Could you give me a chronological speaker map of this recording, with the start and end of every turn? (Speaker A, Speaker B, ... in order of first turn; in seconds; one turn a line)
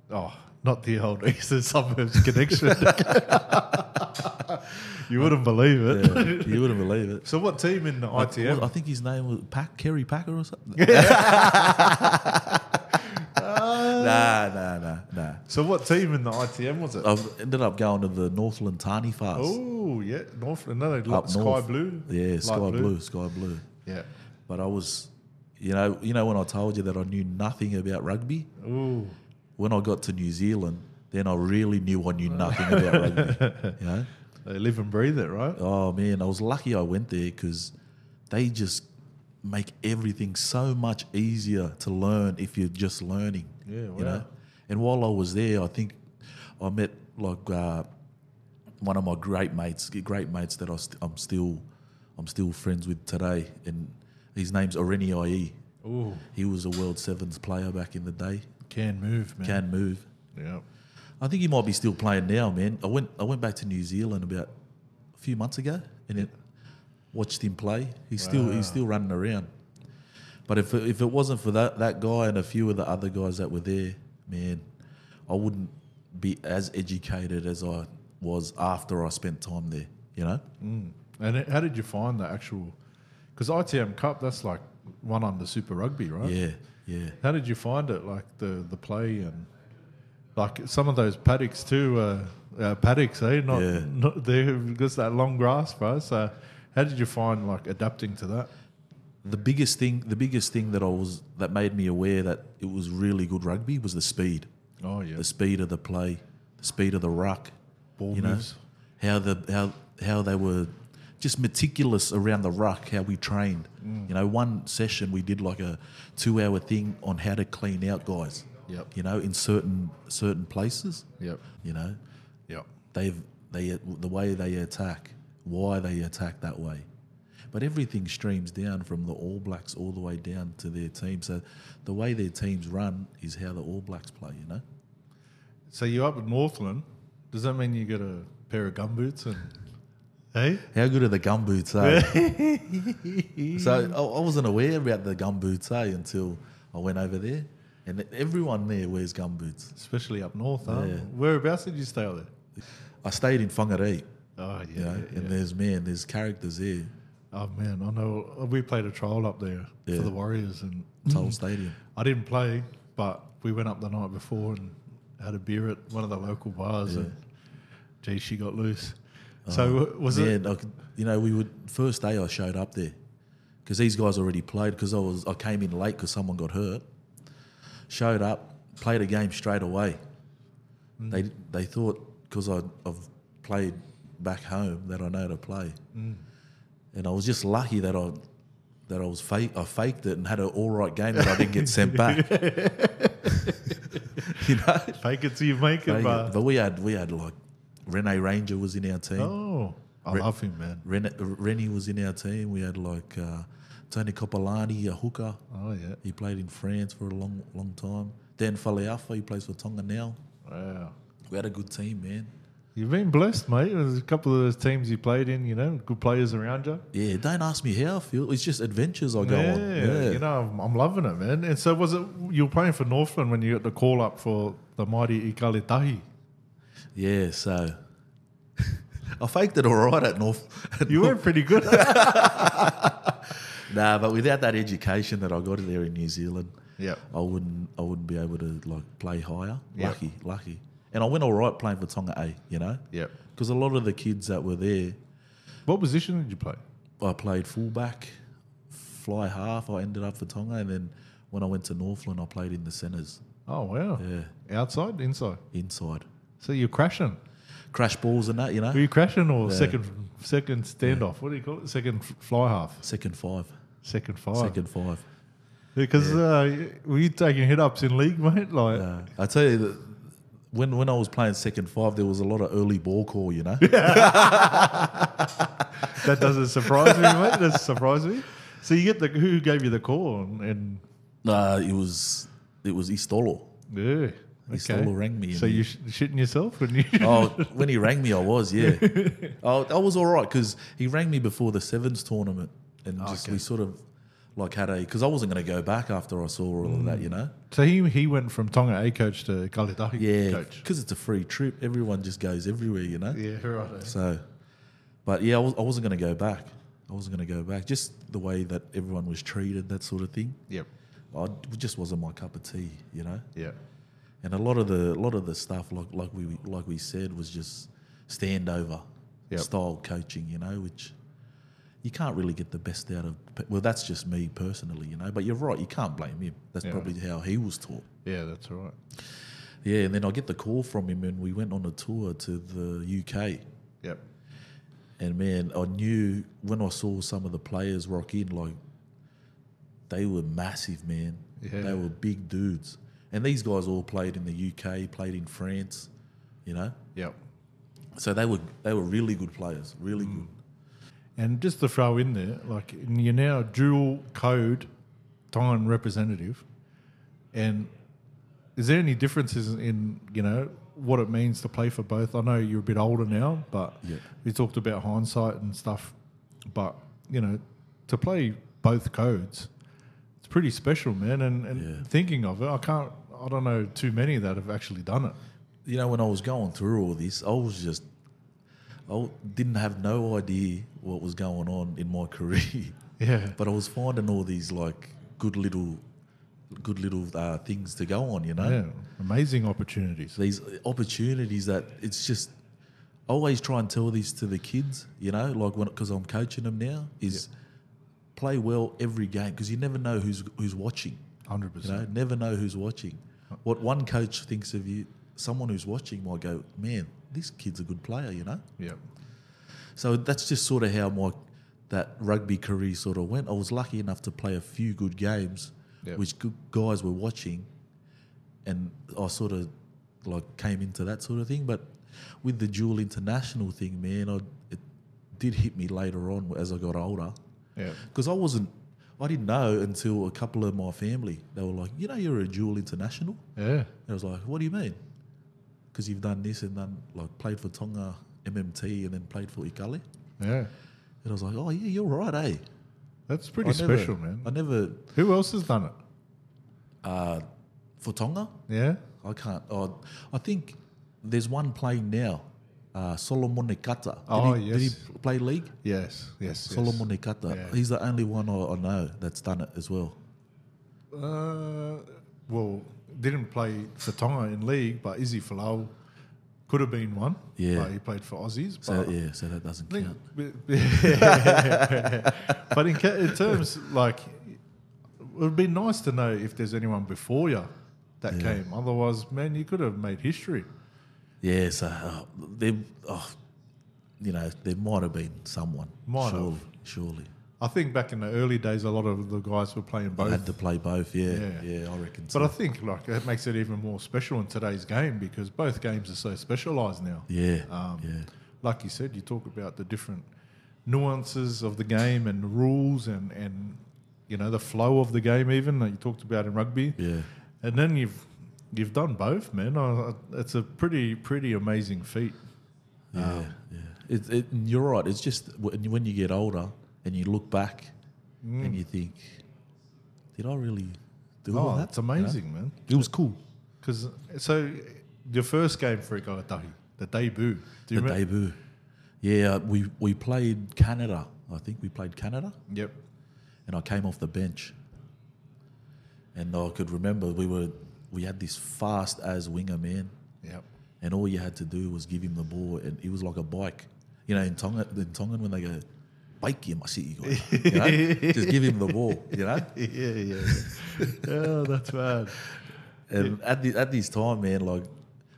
Speaker A: 0.1-6.7
Speaker B: 2.7-3.2
Speaker B: 5.1-7.2
Speaker A: 7.2-8.7
Speaker B: 8.1-12.8
Speaker A: 10.8-12.2
Speaker A: 13.1-14.3
Speaker B: 13.6-15.4
Speaker A: 15.5-17.1
Speaker B: 17.0-19.6
Speaker A: 19.3-22.9
Speaker B: 21.1-23.7
Speaker B: 24.5-28.5
Speaker A: 28.6-29.2
Speaker B: 29.6-34.1
Speaker A: 32.3-33.8
Speaker A: 34.4-35.6
Speaker B: 35.5-37.7
Speaker B: 38.3-38.9
Speaker B: 39.4-46.0
Speaker A: 43.6-44.3
Speaker B: 46.6-47.9
Speaker B: 48.8-51.6
Speaker B: 52.2-55.6
Speaker A: 55.8-56.2
Speaker B: 56.3-58.5
Speaker A: 58.7-59.6
Speaker B: 59.4-60.1
Speaker A: 60.3-60.6
Speaker B: 61.2-64.5
Speaker B: 65.1-66.3
Speaker B: 67.1-69.5
Speaker A: 68.2-68.8
Speaker B: 70.5-74.6
Speaker B: 75.3-80.4
Speaker A: 80.6-82.8
Speaker A: 83.3-86.4
Speaker B: 86.2-87.2
Speaker A: 87.2-89.5
Speaker A: 90.3-98.5
Speaker B: 93.5-93.9
Speaker B: 99.2-104.5
Speaker A: 104.8-105.2
Speaker B: 105.2-107.5
Speaker A: 108.0-108.6
Speaker B: 108.1-121.1
Speaker A: 113.8-114.1
Speaker B: 121.6-122.0
Speaker B: 122.9-126.9
Speaker B: 127.5-134.6
Speaker A: 135.7-139.6
Speaker A: 140.3-140.7
Speaker B: 140.7-142.2
Speaker A: 141.8-143.9
Speaker B: 143.5-149.7
Speaker A: 149.7-152.3
Speaker B: 150.6-151.1
Speaker B: 153.0-154.1
Speaker A: 154.4-155.3
Speaker B: 154.7-156.9
Speaker A: 157.3-167.2
Speaker B: 159.9-160.1
Speaker B: 161.1-161.8
Speaker B: 166.8-167.1
Speaker A: 168.0-170.4
Speaker B: 169.4-172.9
Speaker B: 173.6-176.8
Speaker B: 177.9-180.0
Speaker A: 181.0-181.2
Speaker B: 181.1-185.8
Speaker A: 185.9-186.2
Speaker B: 186.9-188.2
Speaker B: 188.9-192.4
Speaker A: 191.2-194.3
Speaker B: 193.3-195.0
Speaker A: 195.0-196.4
Speaker B: 195.8-199.3
Speaker A: 199.2-200.8
Speaker B: 200.8-205.4
Speaker A: 205.5-206.0
Speaker B: 206.0-210.2
Speaker A: 210.4-210.9
Speaker B: 211.3-212.3
Speaker A: 212.7-216.8
Speaker B: 216.9-220.2
Speaker A: 219.2-226.0
Speaker B: 226.9-227.8
Speaker B: 228.6-236.5
Speaker A: 230.9-232.8
Speaker A: 236.8-237.0
Speaker B: 237.1-242.8
Speaker A: 239.7-240.0
Speaker B: 243.3-245.0
Speaker A: 245.7-246.6
Speaker B: 247.0-248.1
Speaker B: 248.7-253.2
Speaker A: 253.4-255.4
Speaker B: 254.0-254.3
Speaker B: 255.5-256.1
Speaker A: 256.4-257.2
Speaker B: 257.7-258.9
Speaker A: 258.7-262.8
Speaker B: 259.4-259.8
Speaker B: 262.8-263.5
Speaker A: 263.8-264.6
Speaker B: 264.3-265.0
Speaker A: 265.8-268.9
Speaker B: 265.9-266.2
Speaker B: 268.7-275.0
Speaker A: 273.6-275.1
Speaker A: 275.8-280.8
Speaker B: 276.7-277.3
Speaker B: 281.2-283.5
Speaker A: 283.7-287.8
Speaker B: 284.5-285.6
Speaker B: 287.0-293.8
Speaker A: 288.6-289.4
Speaker A: 293.0-293.4
Speaker B: 294.4-297.3
Speaker A: 296.6-300.6
Speaker B: 299.9-303.2
Speaker A: 303.1-303.9
Speaker B: 303.8-304.2
Speaker B: 305.0-310.4
Speaker B: 311.1-313.3
Speaker B: 314.2-320.9
Speaker B: 321.8-327.9
Speaker A: 326.6-326.9
Speaker A: 328.0-328.8
Speaker B: 329.6-333.4
Speaker B: 335.0-338.6
Speaker B: 339.9-345.9
Speaker A: 341.4-341.8
Speaker B: 346.4-346.8
Speaker B: 347.9-350.3
Speaker A: 350.0-350.3
Speaker A: 351.2-354.7
Speaker A: 355.3-356.4
Speaker A: 357.3-357.7
Speaker A: 358.6-365.9
Speaker A: 366.5-369.5
Speaker A: 370.2-375.2
Speaker B: 371.5-371.8
Speaker B: 375.6-377.8
Speaker B: 378.9-382.8
Speaker A: 383.0-383.4
Speaker B: 383.4-385.8
Speaker B: 386.5-388.6
Speaker A: 388.4-390.2
Speaker B: 390.2-392.3
Speaker B: 393.1-397.3
Speaker B: 398.1-401.0
Speaker A: 401.3-401.9
Speaker B: 401.6-408.4
Speaker B: 409.8-411.2
Speaker B: 411.7-417.5
Speaker B: 418.4-419.5
Speaker B: 420.0-424.6
Speaker B: 425.1-427.2
Speaker B: 427.8-433.2
Speaker A: 433.4-433.7
Speaker B: 433.9-434.8
Speaker B: 435.7-439.8
Speaker A: 440.2-440.5
Speaker B: 441.0-442.4
Speaker A: 443.1-444.3
Speaker B: 443.4-444.9
Speaker A: 444.9-445.8
Speaker B: 446.8-447.2
Speaker B: 447.8-448.4
Speaker A: 448.5-448.8
Speaker B: 449.0-455.5
Speaker A: 454.1-454.8
Speaker A: 455.6-457.6
Speaker B: 456.4-460.0
Speaker A: 460.9-465.7
Speaker A: 466.5-468.9
Speaker B: 467.4-467.7
Speaker B: 468.6-470.0
Speaker A: 469.7-474.4
Speaker B: 470.8-472.1
Speaker A: 475.0-477.5
Speaker A: 478.0-480.5
Speaker B: 478.1-478.4
Speaker B: 481.2-483.1
Speaker B: 484.0-487.1
Speaker A: 485.9-486.4
Speaker A: 487.4-490.3
Speaker B: 490.0-492.3
Speaker A: 491.1-491.4
Speaker A: 492.1-500.0
Speaker B: 497.1-498.1
Speaker A: 500.6-506.8
Speaker B: 506.8-507.1
Speaker A: 507.4-512.2
Speaker B: 512.9-517.7
Speaker A: 512.9-513.3
Speaker A: 518.2-518.6
Speaker B: 518.4-519.2
Speaker B: 520.1-523.2
Speaker A: 521.3-522.8
Speaker A: 523.6-528.0
Speaker B: 527.7-528.4
Speaker B: 529.0-532.4
Speaker A: 532.5-532.7
Speaker B: 533.5-534.5
Speaker B: 536.1-539.9
Speaker B: 540.8-545.6
Speaker B: 546.2-549.5
Speaker A: 547.0-548.8
Speaker A: 549.3-552.2
Speaker B: 550.2-551.1
Speaker B: 552.9-554.7